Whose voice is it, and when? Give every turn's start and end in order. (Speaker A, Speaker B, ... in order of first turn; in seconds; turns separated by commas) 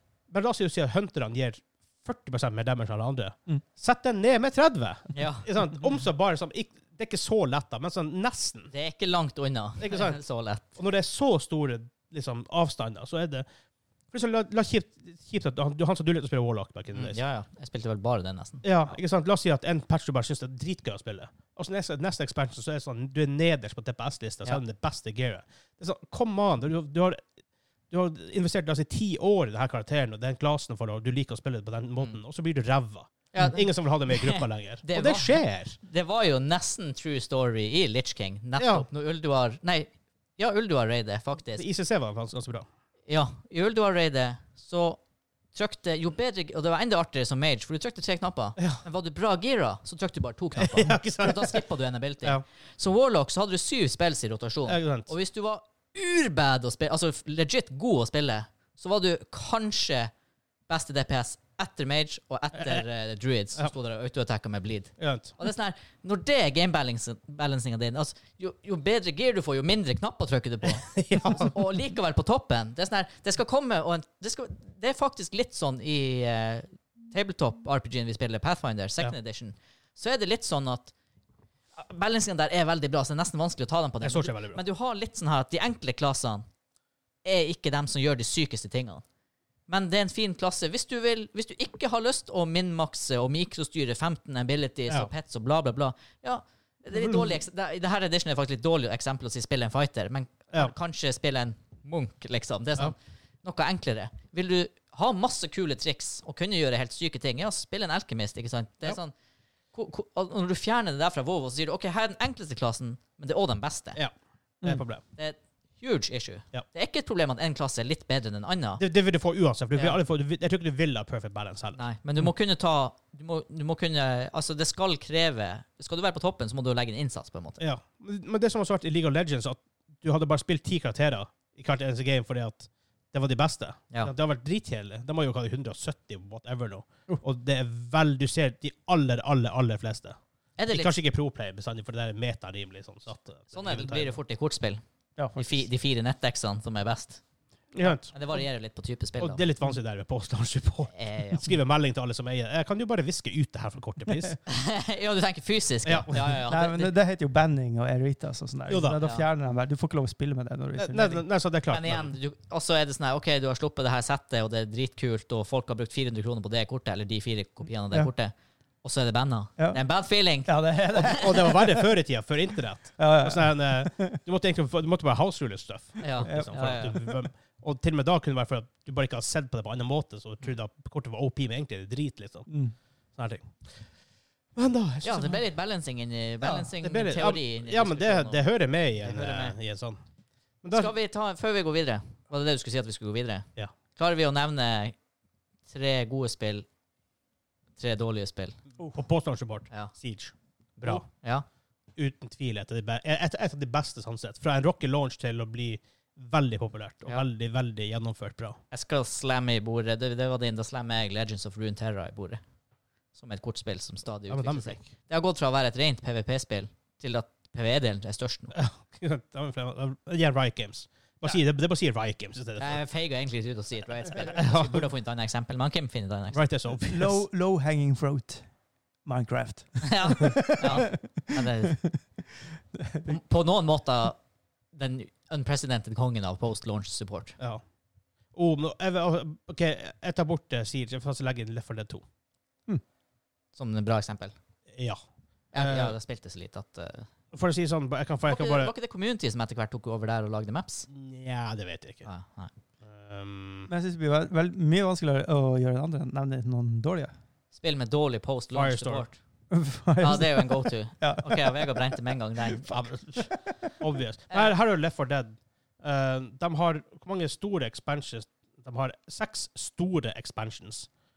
Speaker A: 0.3-8.7, Speaker B: 5.1-5.5, Speaker B: 8.7-10.7, Speaker A: 9.8-10.2, Speaker A: 10.8-13.4, Speaker A: 14.1-17.2, Speaker B: 16.9-18.6, Speaker A: 18.6-27.2, Speaker A: 27.9-35.8, Speaker B: 33.3-41.6, Speaker A: 38.6-38.9, Speaker A: 41.6-42.6, Speaker B: 43.1-45.0, Speaker B: 45.5-60.1, Speaker A: 50.5-51.6, Speaker A: 54.6-55.1, Speaker B: 60.7-80.9, Speaker A: 65.0-65.4, Speaker A: 70.7-71.5, Speaker B: 81.8-86.5, Speaker A: 84.0-84.6, Speaker B: 87.2-89.0, Speaker B: 89.7-109.1, Speaker A: 96.9-97.3, Speaker B: 109.7-114.0, Speaker A: 114.6-115.0, Speaker B: 115.1-118.8, Speaker A: 118.8-121.8, Speaker B: 121.7-127.6, Speaker A: 127.6-140.2, Speaker B: 140.6-141.0, Speaker A: 140.7-144.2, Speaker B: 143.5-144.8, Speaker C: 145.2-145.6, Speaker B: 145.3-147.2, Speaker A: 147.7-148.1, Speaker B: 147.8-149.4, Speaker A: 149.2-154.4, Speaker B: 150.9-151.4, Speaker B: 154.5-156.9, Speaker A: 155.8-156.4, Speaker C: 156.5-161.2, Speaker A: 158.7-159.0, Speaker B: 159.0-159.2, Speaker A: 160.8-162.1, Speaker B: 161.7-171.3, Speaker C: 170.4-171.9, Speaker A: 170.9-182.5, Speaker C: 173.0-174.2, Speaker B: 176.0-177.0, Speaker C: 176.2-177.1, Speaker C: 182.5-182.7, Speaker A: 183.1-183.8, Speaker A: 184.6-185.4, Speaker B: 185.0-188.4, Speaker C: 186.4-186.7, Speaker A: 186.8-190.0, Speaker B: 189.0-189.6, Speaker A: 190.6-190.9, Speaker B: 190.7-194.9, Speaker B: 195.7-196.7, Speaker B: 197.8-198.6, Speaker A: 198.9-201.0, Speaker B: 200.8-201.4, Speaker A: 202.0-208.6, Speaker B: 208.7-212.4, Speaker B: 213.1-218.5, Speaker A: 214.3-214.9, Speaker A: 218.5-222.8, Speaker B: 222.6-226.4, Speaker A: 224.3-224.9, Speaker A: 226.3-227.2, Speaker C: 226.9-228.4, Speaker C: 229.0-232.0, Speaker B: 229.8-231.8, Speaker C: 232.7-233.2, Speaker B: 233.1-234.2, Speaker B: 234.7-237.4, Speaker A: 238.3-242.0, Speaker B: 243.5-244.3, Speaker A: 244.7-245.0, Speaker B: 245.5-247.1, Speaker A: 245.5-245.9, Speaker A: 247.3-248.7, Speaker B: 248.3-250.9, Speaker A: 250.9-252.1, Speaker B: 252.0-252.5, Speaker A: 252.8-253.7, Speaker C: 253.7-257.1, Speaker B: 257.5-259.2, Speaker A: 258.5-259.1, Speaker C: 259.5-261.8, Speaker B: 260.0-262.8, Speaker A: 262.7-270.9